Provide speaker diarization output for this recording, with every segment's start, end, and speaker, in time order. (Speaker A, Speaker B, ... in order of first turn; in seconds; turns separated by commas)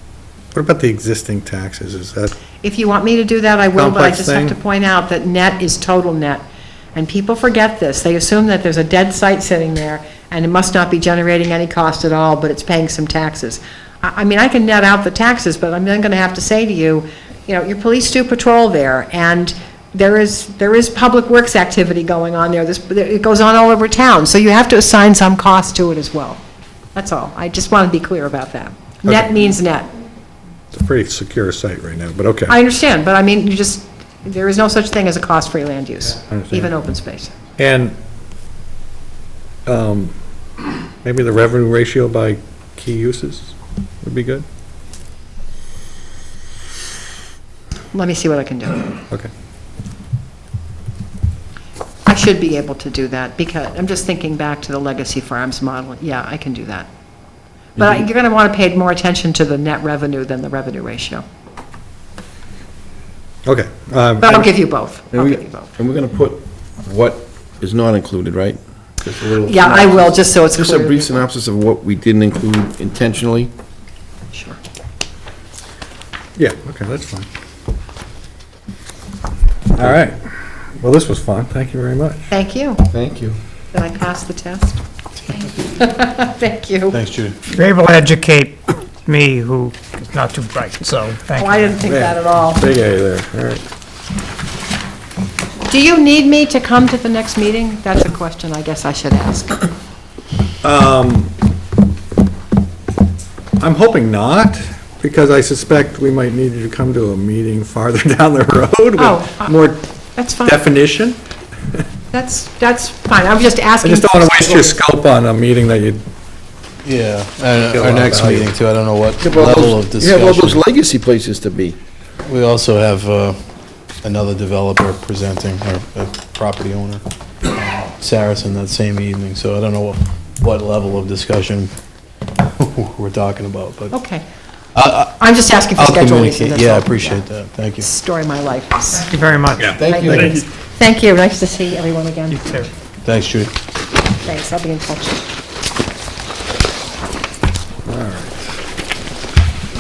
Speaker A: 0.5-2.3, Speaker B: 2.6-26.4, Speaker A: 3.8-4.5, Speaker B: 26.9-29.9, Speaker A: 30.7-32.5, Speaker B: 32.5-37.4, Speaker A: 36.3-36.6, Speaker A: 37.6-38.0, Speaker A: 39.7-40.1, Speaker A: 41.0-44.5, Speaker B: 47.9-49.0, Speaker B: 52.1-56.9, Speaker B: 57.8-61.2, Speaker A: 63.5-64.5, Speaker B: 64.2-65.7, Speaker C: 65.1-73.5, Speaker B: 69.4-71.2, Speaker B: 74.3-74.6, Speaker A: 76.4-77.3, Speaker A: 79.8-80.3, Speaker A: 80.8-82.3, Speaker B: 82.3-82.8, Speaker C: 82.9-83.4, Speaker B: 83.7-84.8, Speaker B: 85.3-87.0, Speaker D: 86.9-87.4, Speaker E: 87.5-91.8, Speaker B: 91.4-92.6, Speaker A: 91.9-93.6, Speaker B: 95.7-99.6, Speaker A: 100.6-101.3, Speaker A: 103.6-109.8, Speaker B: 109.0-110.7, Speaker A: 110.5-111.2, Speaker B: 112.1-114.8, Speaker A: 113.8-116.0, Speaker D: 116.8-120.6, Speaker A: 117.7-118.5, Speaker C: 119.2-121.8, Speaker D: 122.2-123.4, Speaker D: 124.0-131.7, Speaker D: 132.4-134.0, Speaker B: 133.9-134.2, Speaker D: 134.8-135.2, Speaker B: 135.2-137.2, Speaker D: 135.7-137.9, Speaker B: 137.8-139.1, Speaker E: 139.1-140.4, Speaker C: 139.8-140.4, Speaker B: 139.8-142.7, Speaker E: 142.3-142.7, Speaker D: 143.1-143.5, Speaker B: 144.2-145.3, Speaker A: 147.8-148.5